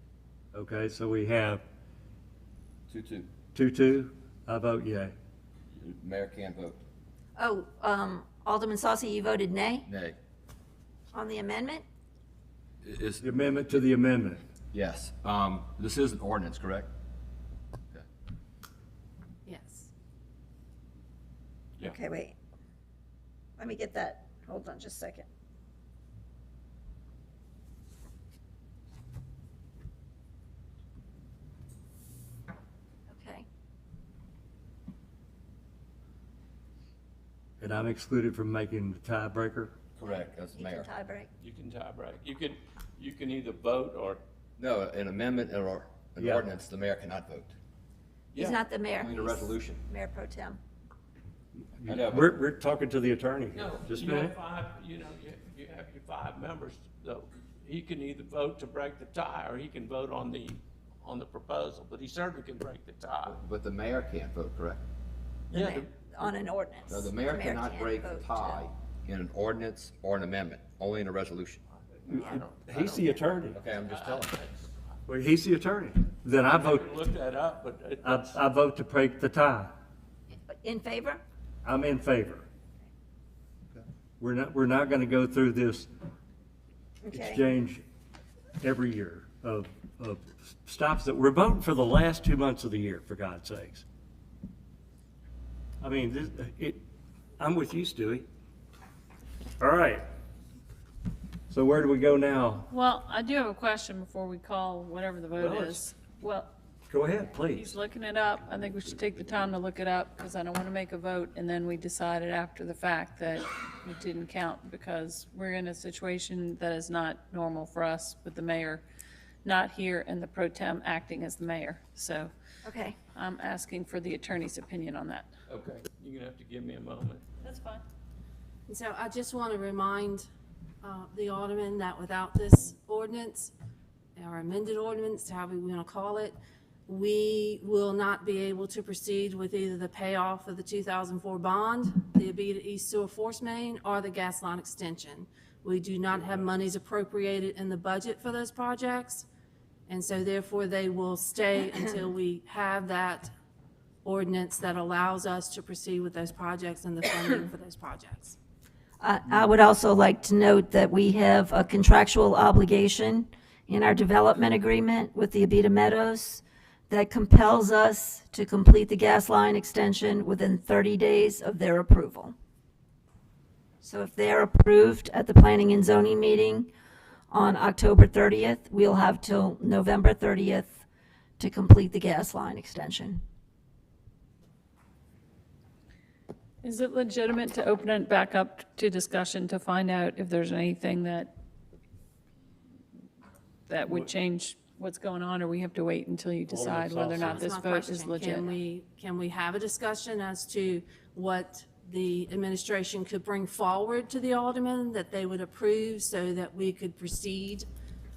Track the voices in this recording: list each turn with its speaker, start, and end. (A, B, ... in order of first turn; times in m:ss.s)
0:00.5-0:01.6 A
0:02.9-0:03.3 B
0:03.5-0:05.1 A
0:05.8-0:06.8 B
0:07.4-0:09.9 C
0:09.9-0:10.2 B
0:11.1-0:11.8 C
0:12.8-0:13.2 B
0:13.2-0:14.4 A
0:14.7-0:16.9 B
0:19.5-0:19.9 D
0:21.8-0:22.4 C
0:23.6-0:25.3 C
0:33.1-0:33.5 C
0:37.6-0:39.7 A
0:40.0-0:40.9 B
0:40.0-0:41.3 C
0:41.4-0:44.2 E
0:44.6-0:47.5 B
0:46.2-0:46.4 A
0:48.3-0:49.8 B
0:48.3-0:50.6 C
0:51.8-0:54.3 A
0:51.9-0:52.3 B
0:53.5-1:03.4 E
1:03.3-1:04.8 B
1:05.5-1:08.6 C
1:05.5-1:05.9 E
1:06.9-1:11.6 B
1:11.9-1:13.1 E
1:12.1-1:13.6 A
1:13.5-1:14.4 B
1:13.8-1:14.8 E
1:15.1-1:16.9 A
1:16.5-1:18.4 E
1:18.0-1:19.7 A
1:20.5-1:21.2 C
1:21.6-1:22.5 A
1:24.2-1:25.9 A
1:27.0-1:27.5 C
1:27.1-1:27.8 A
1:28.6-1:33.8 A
1:35.8-1:36.8 A
1:37.4-1:38.3 A
1:39.6-1:40.0 A
1:41.5-1:42.7 A
1:42.7-1:46.5 F
1:45.4-1:45.8 E
1:46.9-1:47.8 A
1:47.4-1:58.8 F
1:59.4-2:02.3 F
2:02.6-2:03.0 C
2:03.1-2:05.3 F
2:05.5-2:07.2 E
2:07.4-2:07.8 F
2:08.7-2:10.3 D
2:10.8-2:13.5 D
2:14.2-2:16.4 D
2:16.9-2:29.3 D
2:29.9-2:33.3 D
2:34.0-2:38.4 D
2:39.0-2:52.3 C
2:53.8-2:56.7 C
2:57.3-3:00.9 C
3:01.4-3:03.2 C
3:06.6-3:11.3 F
3:13.7-3:18.5 F
3:16.5-3:17.4 A
3:17.1-3:27.7 D